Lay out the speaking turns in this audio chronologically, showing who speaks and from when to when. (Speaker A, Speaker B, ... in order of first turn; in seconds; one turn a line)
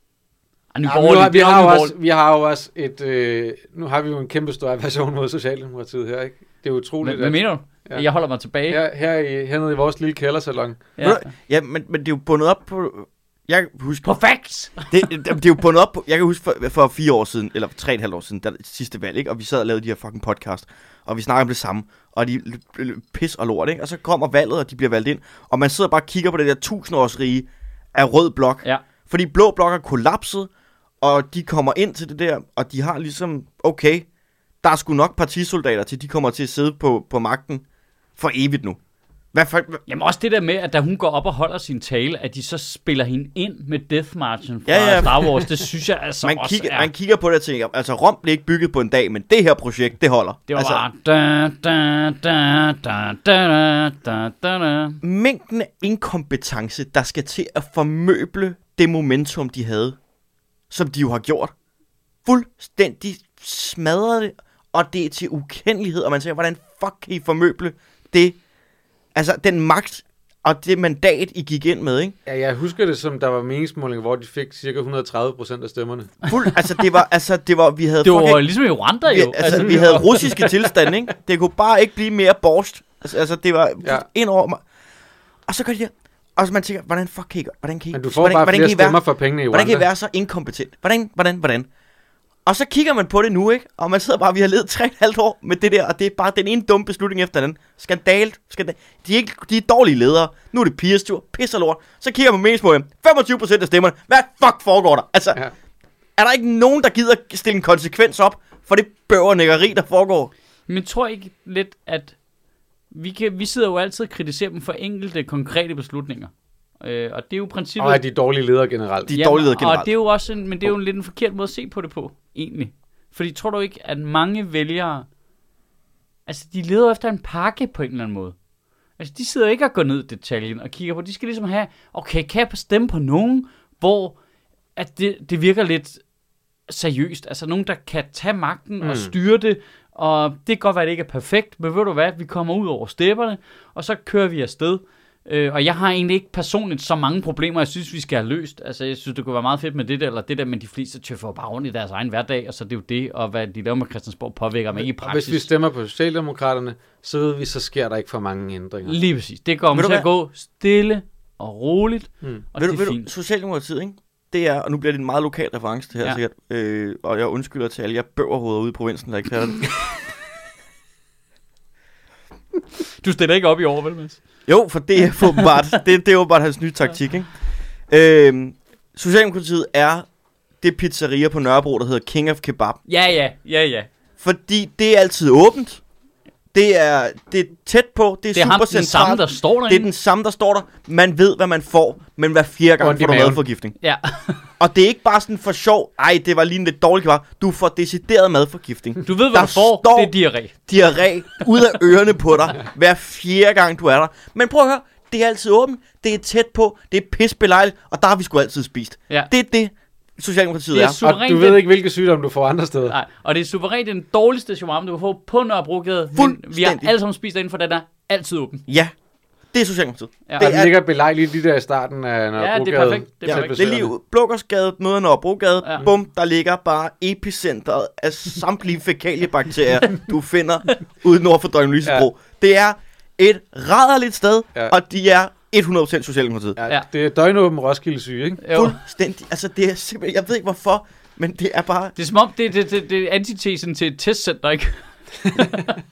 Speaker A: 0.7-1.9
Speaker B: 0.8-8.0
Speaker A: 7.0-8.8
Speaker B: 8.7-10.8
Speaker A: 11.0-11.2
Speaker C: 11.0-14.2
Speaker A: 14.0-14.9
Speaker C: 14.8-30.5
Speaker C: 31.0-34.0
Speaker C: 34.6-37.6
Speaker C: 38.2-38.8
Speaker C: 39.3-39.8
Speaker A: 39.9-46.9
Speaker C: 44.7-45.6
Speaker C: 46.2-50.8
Speaker A: 50.5-55.0
Speaker C: 55.0-60.0
Speaker C: 60.7-61.5
Speaker C: 62.2-68.4
Speaker C: 69.1-72.1
Speaker B: 72.2-76.2
Speaker C: 76.3-78.4
Speaker A: 78.0-80.5
Speaker C: 79.0-84.6
Speaker B: 79.4-80.7
Speaker C: 85.5-91.7
Speaker B: 87.9-89.9
Speaker C: 92.5-105.4
Speaker C: 106.2-110.3
Speaker A: 110.7-112.2
Speaker A: 112.9-118.0
Speaker B: 117.8-119.2
Speaker C: 119.1-119.9
Speaker A: 119.1-125.0
Speaker A: 126.3-128.3
Speaker A: 129.0-134.2
Speaker A: 134.8-136.0
Speaker A: 136.7-155.5
Speaker B: 138.8-139.1
Speaker B: 154.8-159.0
Speaker A: 158.8-163.1
Speaker C: 159.7-160.1
Speaker C: 162.6-169.8
Speaker A: 173.0-174.2
Speaker C: 174.5-177.3
Speaker C: 177.9-180.1
Speaker C: 180.6-182.8
Speaker A: 182.9-183.9
Speaker C: 184.2-185.8
Speaker C: 186.5-193.7
Speaker A: 188.3-189.9
Speaker B: 192.8-193.4
Speaker A: 193.8-194.5
Speaker C: 194.6-200.1
Speaker A: 199.0-200.6
Speaker C: 200.7-211.0
Speaker A: 210.7-211.7
Speaker B: 211.0-212.9
Speaker A: 212.9-218.6
Speaker C: 216.2-216.9
Speaker C: 218.7-218.9
Speaker C: 219.5-220.7
Speaker A: 220.3-220.5
Speaker B: 220.4-223.9
Speaker A: 222.4-223.7
Speaker C: 223.2-236.6
Speaker B: 236.6-238.4
Speaker A: 238.4-238.8
Speaker C: 238.5-241.9
Speaker A: 241.9-245.8